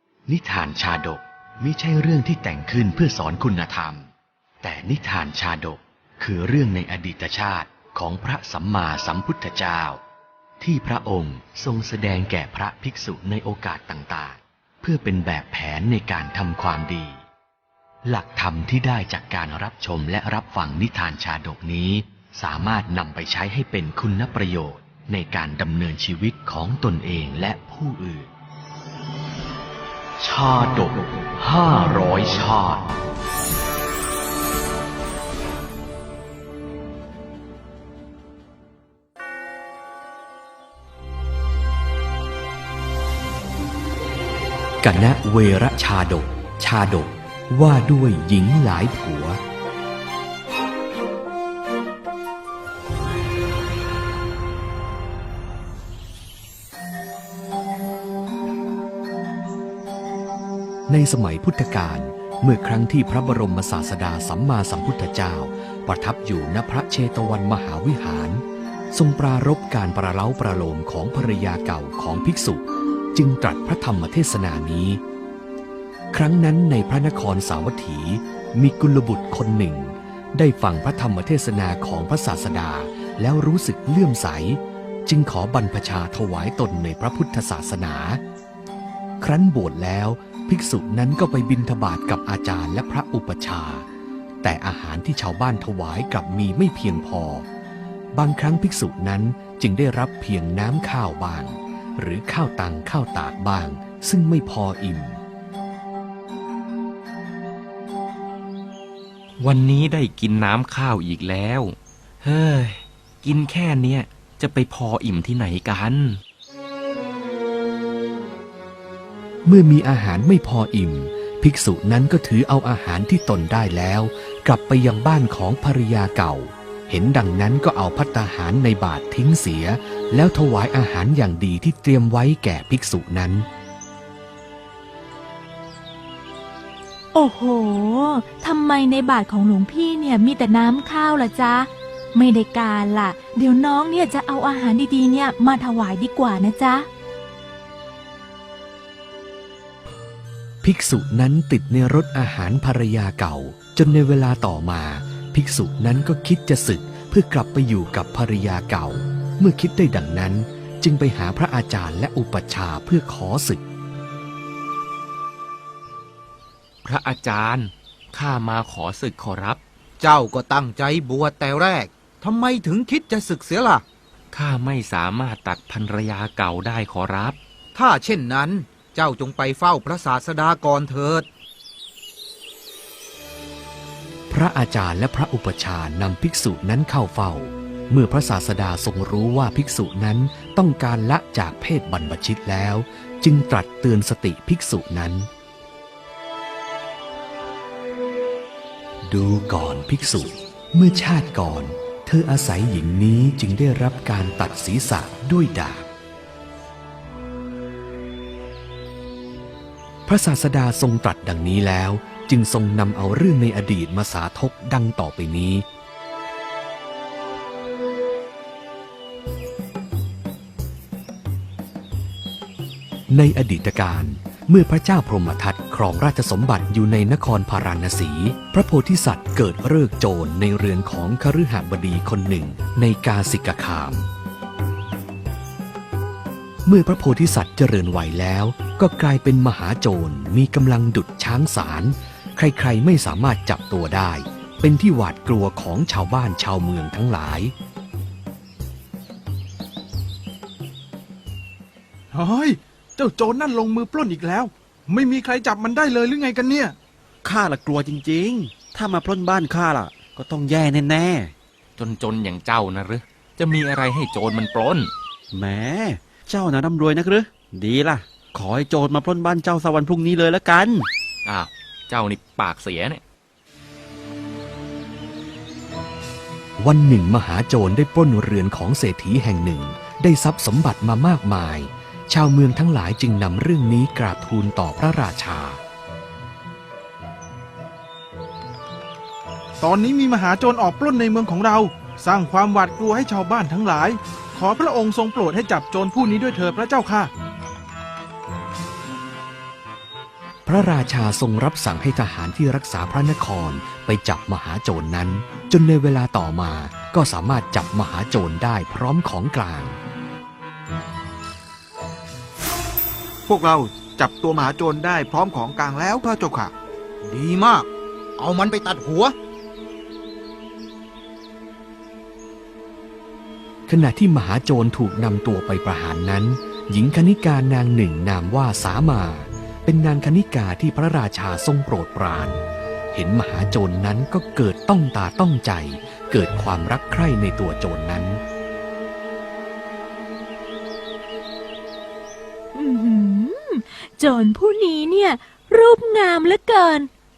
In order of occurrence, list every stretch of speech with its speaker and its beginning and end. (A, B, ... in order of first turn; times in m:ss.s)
0:00.3-0:04.1 A
0:04.6-0:10.0 A
0:10.6-0:17.2 A
0:18.0-0:28.3 A
0:30.2-0:33.0 A
0:44.8-0:49.4 A
1:00.9-1:12.6 A
1:13.1-1:15.0 A
1:16.1-1:28.2 A
1:29.2-1:33.9 A
1:34.4-1:37.5 A
1:38.2-1:45.2 A
1:49.4-1:56.2 B
1:59.5-2:13.5 A
2:17.1-2:26.9 C
2:30.6-2:43.6 A
2:46.8-2:49.6 B
2:50.0-2:53.8 D
2:54.3-2:57.4 B
2:57.8-3:01.3 D
3:04.3-3:15.3 A
3:19.1-3:25.9 A
3:30.1-3:35.6 A
3:43.1-3:54.0 A
3:56.7-4:07.5 A
4:12.1-4:16.8 E
4:17.2-4:21.3 F
4:21.8-4:24.9 B
4:25.3-4:30.9 F
4:31.3-4:33.0 B
4:36.6-4:45.6 A
4:49.6-4:57.1 E
5:00.5-5:09.8 A
5:13.3-5:16.5 G
5:17.1-5:19.2 D
5:23.7-5:32.4 A
5:32.9-5:38.2 A
5:42.5-5:46.9 C